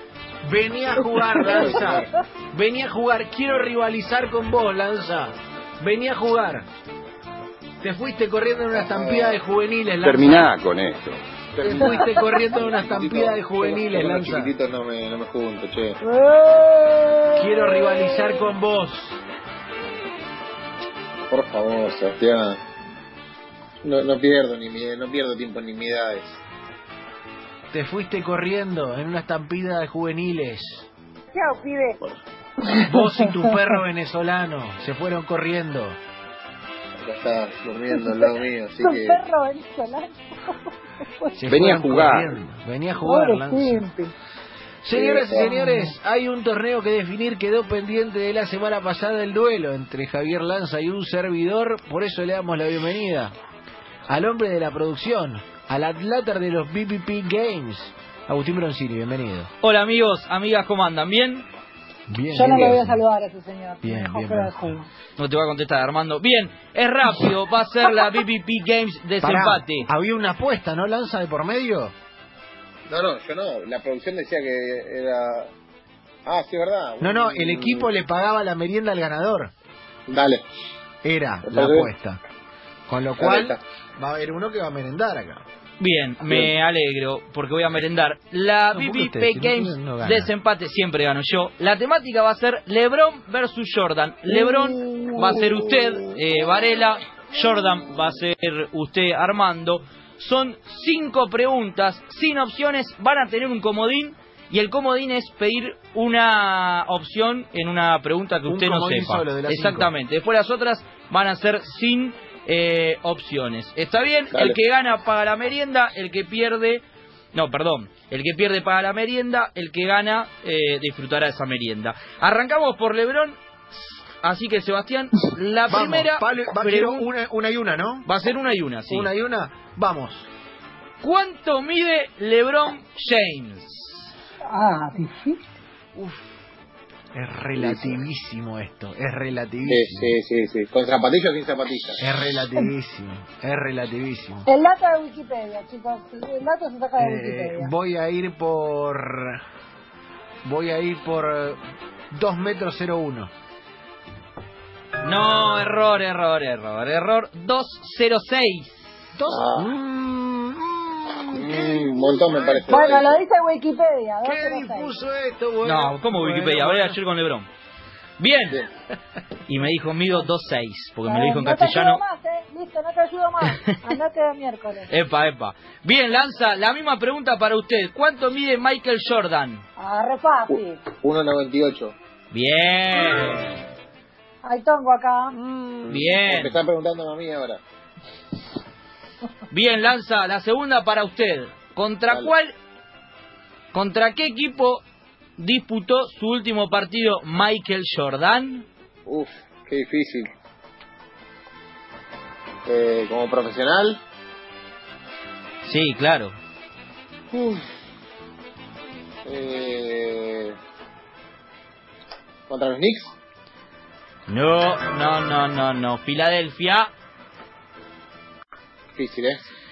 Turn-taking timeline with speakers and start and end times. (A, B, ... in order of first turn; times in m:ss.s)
0:00.4-0:06.6 A
0:01.5-0:02.1 B
0:07.8-0:10.5 A
0:08.7-0:09.4 B
0:10.0-0:12.0 C
0:11.6-0:14.5 A
0:12.5-0:16.0 B
0:16.0-0:18.5 D
0:17.4-0:19.2 A
0:21.3-0:22.6 B
0:23.8-0:26.4 B
0:27.7-0:30.9 A
0:31.3-0:32.1 D
0:32.6-0:33.5 D
0:32.8-0:36.0 A
0:37.0-0:39.2 B
0:37.9-0:41.4 D
0:41.4-0:43.8 A
0:41.4-0:42.3 C
0:43.0-0:44.1 D
0:44.8-0:53.3 A
0:44.9-0:45.5 B
0:45.4-0:45.9 D
0:54.1-0:59.5 A
0:59.6-1:01.4 E
1:02.1-1:03.0 A
1:02.3-1:04.8 D
1:03.8-1:04.6 A
1:05.2-1:09.9 E
1:09.2-1:11.9 A
1:12.9-1:15.5 B
1:16.2-1:17.9 B
1:17.0-1:19.5 A
1:20.1-1:20.4 B
1:21.0-1:22.2 A
1:21.4-1:21.9 B
1:22.9-1:25.4 A
1:23.2-1:23.6 B
1:25.8-1:56.8 E
1:28.7-1:30.3 A
1:34.7-1:35.2 A
1:48.4-1:49.9 A
1:54.3-1:54.6 B
1:57.3-2:07.0 E
2:05.7-2:08.1 A
2:08.0-2:09.1 E
2:08.9-2:10.3 A
2:11.0-2:14.1 E
2:14.5-2:15.4 D
2:15.9-2:16.3 A
2:17.1-2:20.2 A
2:17.6-2:18.0 B
2:19.6-2:22.0 B
2:22.0-2:24.5 A
2:24.4-2:27.7 D
2:27.0-2:29.4 A
2:30.4-2:31.6 A
2:32.1-2:33.3 A
2:35.0-2:38.9 E
2:39.1-2:42.9 A
2:39.3-2:39.7 B
2:41.3-2:43.2 B
2:42.6-2:44.9 D
2:44.2-2:47.0 A
2:45.6-2:47.5 E
2:48.2-2:48.6 E
2:49.4-2:52.0 E
2:51.0-2:54.9 D
2:53.4-2:53.9 E
2:54.9-2:59.6 E
2:59.8-3:00.8 D
3:00.5-3:01.9 B
3:02.3-3:03.6 E
3:04.4-3:05.4 D
3:05.3-3:06.1 A
3:05.9-3:06.6 E
3:05.9-3:07.6 B
3:09.5-3:12.5 E
3:13.7-3:14.8 E
3:15.4-3:18.6 E
3:19.0-3:20.3 B
3:22.6-3:24.0 B
3:25.6-3:26.4 E
3:27.3-3:27.7 B
3:29.2-3:30.6 B
3:32.5-3:33.1 B
3:34.3-3:36.9 E
3:39.0-3:39.4 B